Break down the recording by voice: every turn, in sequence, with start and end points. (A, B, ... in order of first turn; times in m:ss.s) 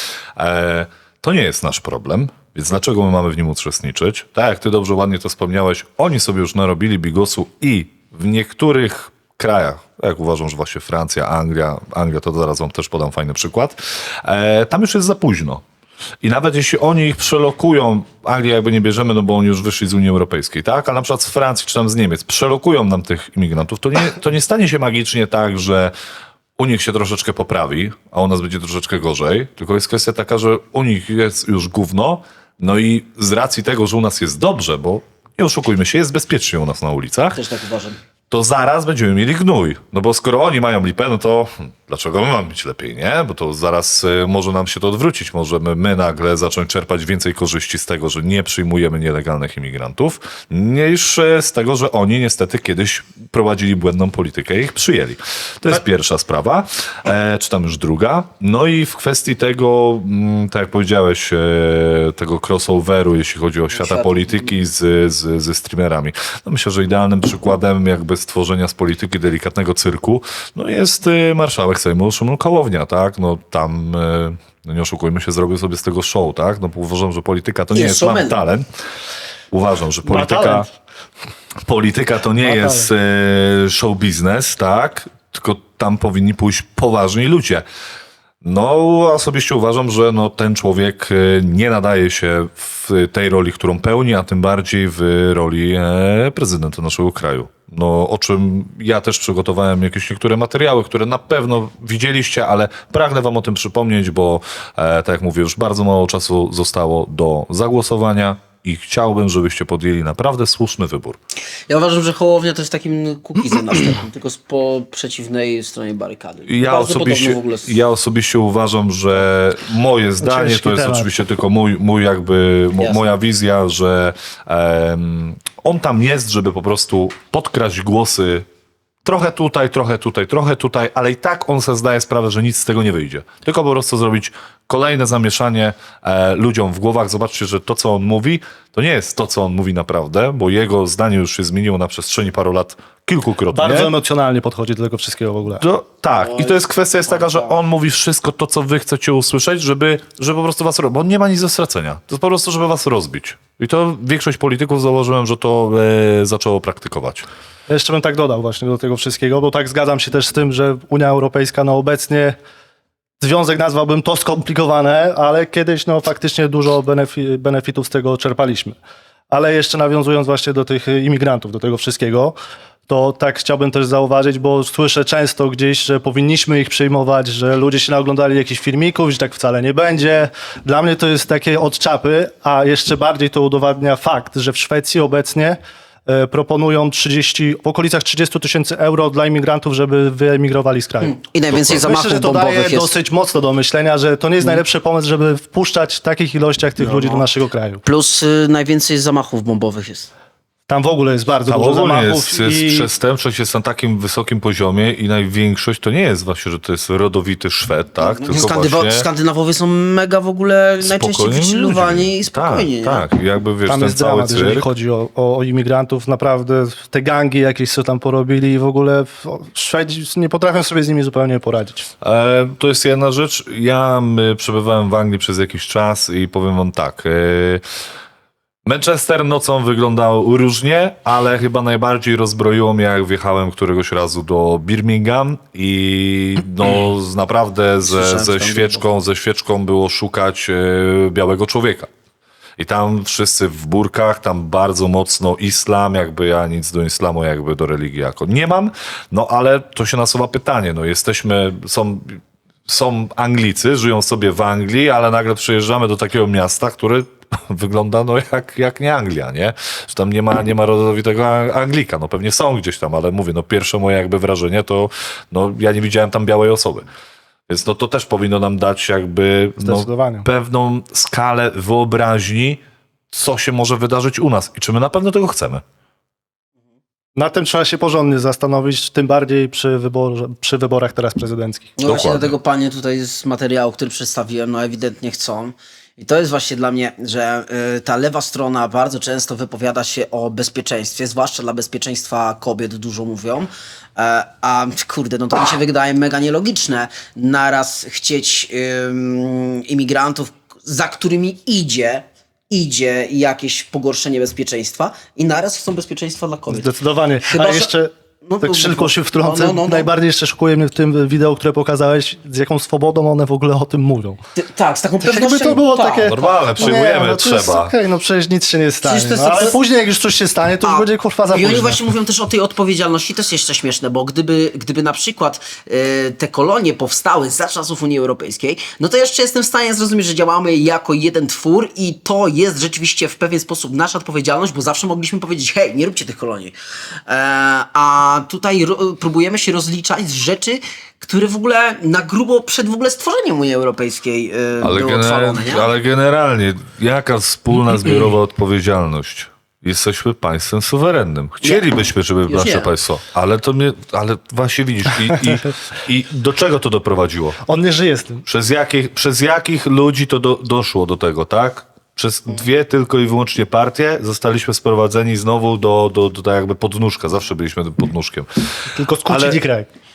0:00.4-0:15.6 A
0:16.2-0:25.9 A
0:26.6-0:37.4 A
0:37.3-0:38.0 B
0:38.3-1:18.7 A
1:03.7-1:04.5 B
1:17.7-1:18.4 B
1:19.5-1:20.7 A
1:20.1-1:20.7 C
1:21.6-1:27.6 A
1:22.4-1:22.9 C
1:28.4-1:51.2 A
1:51.7-1:57.7 B
1:56.5-2:08.5 A
2:00.2-2:01.1 C
2:09.0-2:24.0 A
2:23.5-2:25.6 C
2:25.6-2:37.3 A
2:26.1-2:27.6 B
2:37.7-2:42.4 C
2:43.2-2:48.8 C
2:49.3-2:52.4 C
2:52.9-3:11.2 C
3:11.0-3:13.0 B
3:11.8-3:17.8 C
3:16.8-3:17.2 B
3:17.8-3:20.1 B
3:20.7-3:22.9 C
3:21.5-3:29.1 A
3:28.0-3:33.1 B
3:30.8-3:34.7 A
3:33.7-3:41.9 C
3:42.0-3:47.6 A
3:48.6-4:01.9 A
3:57.9-3:58.8 B
4:02.6-4:26.9 A
4:27.5-4:35.6 A
4:29.6-4:30.3 C
4:37.2-4:41.7 C
4:41.8-5:06.7 B
4:41.8-4:42.4 A
5:06.5-5:14.2 C
5:07.3-5:07.7 B
5:08.2-5:09.9 B
5:14.4-5:16.7 B
5:15.0-5:21.8 C
5:16.1-5:17.7 A
5:18.8-5:19.6 B
5:20.6-5:36.6 B
5:37.1-5:45.7 B
5:44.6-5:57.4 A
5:51.4-5:51.7 B
5:52.3-5:52.7 B
5:57.5-5:58.2 C
5:58.3-6:08.3 A
6:08.8-6:09.7 C
6:09.1-6:09.4 A